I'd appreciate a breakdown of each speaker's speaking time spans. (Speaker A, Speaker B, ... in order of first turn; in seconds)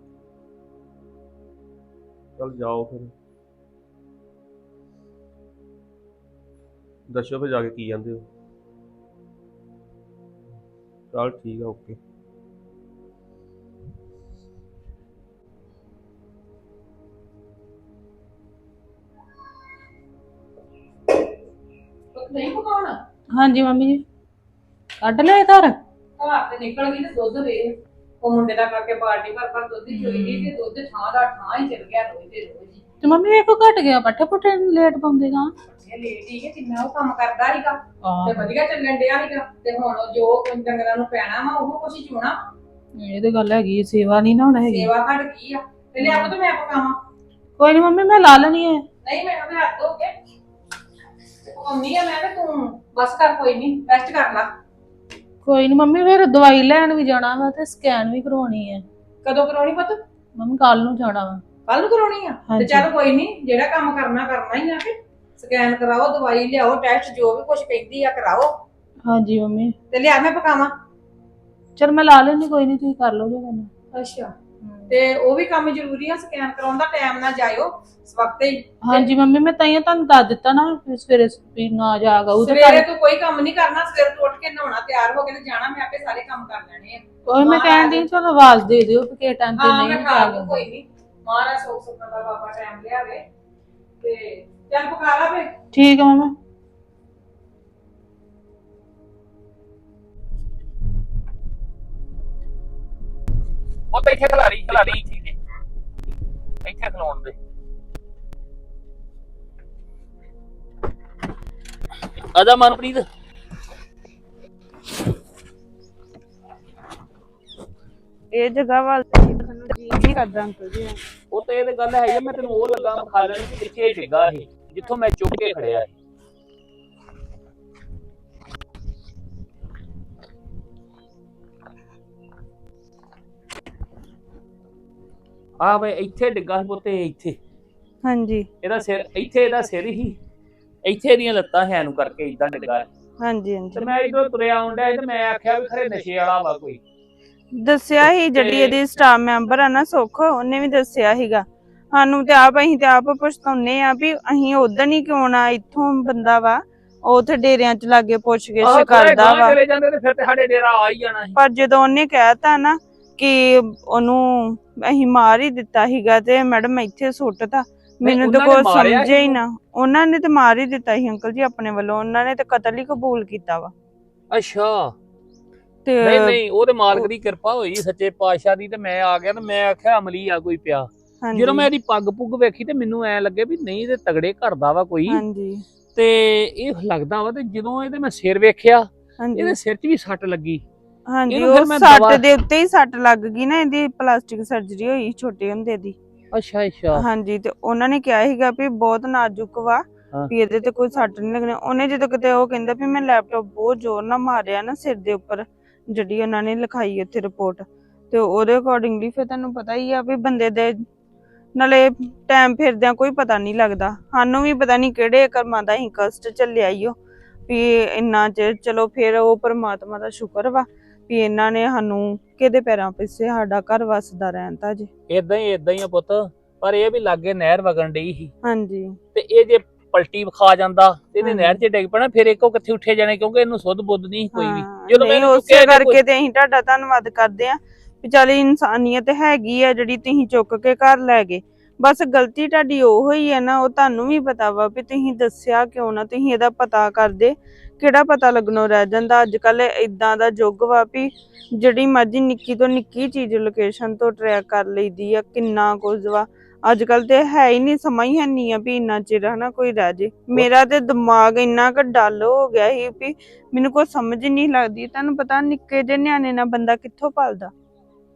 Speaker A: 2.4-3.1, 7.1-8.3, 11.1-12.0
Speaker B: 22.1-23.0, 26.2-32.8, 35.7-42.4, 44.7-47.0, 49.0-50.1, 51.5-54.5, 59.2-60.0, 61.7-68.5, 69.9-70.7, 73.9-74.3, 74.9-79.1, 82.4-88.1, 89.5-93.2, 94.0-95.5
Speaker C: 23.3-24.0, 25.0-25.8, 29.9-30.5, 33.0-35.5, 38.0-38.5, 43.0-44.9, 46.0-46.3, 47.6-48.9, 55.4-58.8, 60.4-61.4, 62.5-62.9, 69.0-69.8, 71.8-73.7, 74.6-74.9, 78.8-82.9, 87.3-90.6, 95.7-96.3
Speaker D: 103.9-105.4, 106.6-107.3, 112.3-113.0, 121.3-125.9, 135.6-137.4, 138.6-140.2, 140.8-142.9, 143.8-146.8, 148.0-148.8, 158.6-161.4, 168.0-169.4, 174.3-174.9, 176.0-185.2, 186.0-190.6, 191.3-192.2, 196.3-197.1, 225.1-228.3, 229.2-236.0
Speaker E: 118.3-121.0, 138.0-138.5, 143.2-143.9, 147.6-159.6, 161.3-173.7, 175.9-176.4, 181.2-181.7, 185.1-185.6, 189.2-189.6, 191.1-196.0, 196.9-210.8, 211.6-217.0, 217.5-224.9, 228.4-229.0, 231.2-231.6, 234.3-267.5